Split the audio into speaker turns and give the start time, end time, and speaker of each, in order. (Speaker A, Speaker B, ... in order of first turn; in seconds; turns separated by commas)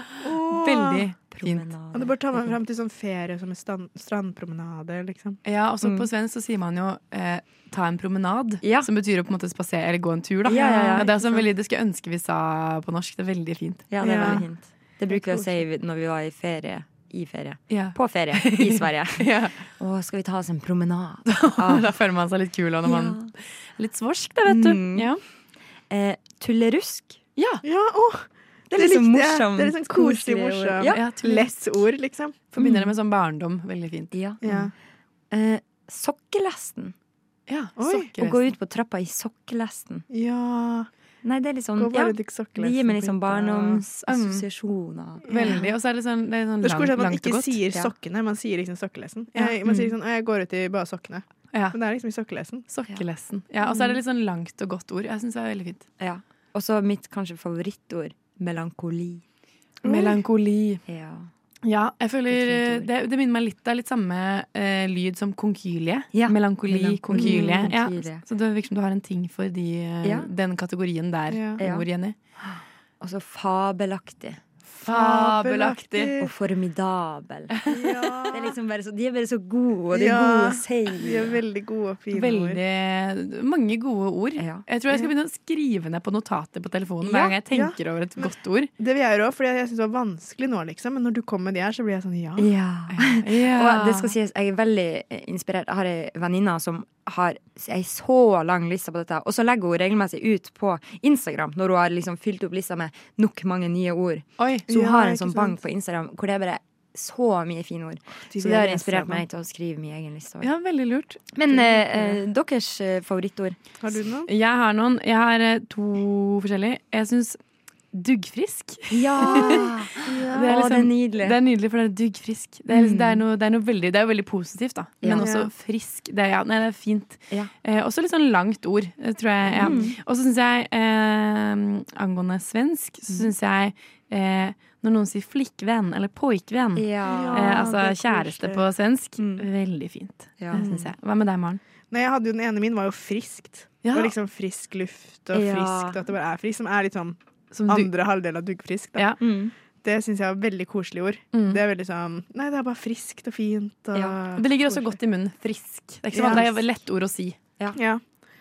Speaker A: 0.2-1.1, Speaker B: 0.3-1.7, Speaker C: 1.2-2.5, Speaker A: 1.9-5.4, Speaker B: 5.4-14.4, Speaker C: 5.8-6.1, Speaker C: 8.6-8.9, Speaker C: 10.4-11.5, Speaker C: 13.9-21.9, Speaker A: 14.0-14.5, Speaker A: 15.1-15.6, Speaker B: 17.7-19.6, Speaker B: 21.2-25.2, Speaker C: 22.8-23.3, Speaker C: 24.4-25.1, Speaker C: 25.9-27.2, Speaker B: 27.4-27.6, Speaker A: 27.6-32.5, Speaker C: 28.7-31.1, Speaker B: 30.8-31.6, Speaker B: 32.5-34.2, Speaker C: 32.6-32.8, Speaker C: 34.1-34.7, Speaker A: 34.4-34.7, Speaker C: 35.3-36.9, Speaker B: 37.5-38.5, Speaker A: 37.8-38.1, Speaker C: 38.2-40.0, Speaker A: 40.1-40.9, Speaker C: 41.2-45.7, Speaker A: 41.8-43.9, Speaker B: 44.0-44.5, Speaker A: 45.2-45.7, Speaker B: 45.3-47.7, Speaker A: 46.6-52.7, Speaker B: 49.4-49.8, Speaker B: 52.7-55.8, Speaker C: 53.6-53.9, Speaker C: 56.0-59.2, Speaker B: 59.8-60.8, Speaker A: 59.8-60.2, Speaker C: 60.9-61.3, Speaker B: 61.6-72.2, Speaker C: 62.3-62.9, Speaker C: 66.1-68.2, Speaker A: 67.1-67.5, Speaker C: 70.0-70.3, Speaker A: 71.3-71.6, Speaker C: 71.6-71.9, Speaker C: 72.4-74.4, Speaker B: 74.8-76.1, Speaker A: 74.8-76.3, Speaker C: 76.2-77.5, Speaker B: 77.6-78.0, Speaker A: 77.7-78.5, Speaker C: 78.3-81.4, Speaker A: 79.9-82.6, Speaker B: 82.1-88.7, Speaker C: 84.4-84.8, Speaker C: 87.0-87.4, Speaker A: 87.5-92.5, Speaker C: 92.4-110.5, Speaker B: 92.9-94.1, Speaker B: 104.4-104.7, Speaker A: 104.7-105.6, Speaker A: 108.3-109.2, Speaker B: 108.4-108.8, Speaker B: 110.4-112.2, Speaker C: 111.3-113.6, Speaker A: 113.8-114.3, Speaker B: 114.3-117.4, Speaker B: 117.9-141.6, Speaker C: 118.9-121.4, Speaker A: 119.2-120.5, Speaker C: 122.7-123.2, Speaker C: 125.0-125.5, Speaker A: 125.1-125.5, Speaker C: 129.4-130.0, Speaker A: 129.5-129.9, Speaker C: 136.8-137.8, Speaker A: 137.0-138.6, Speaker C: 139.2-139.4, Speaker C: 140.4-140.9, Speaker A: 141.9-149.2, Speaker B: 143.8-144.1, Speaker C: 145.3-146.0, Speaker B: 147.5-147.9, Speaker C: 149.2-149.5, Speaker A: 149.8-155.0, Speaker B: 151.3-151.6, Speaker C: 153.9-154.2, Speaker B: 154.3-157.4, Speaker A: 156.1-156.5, Speaker A: 157.7-158.0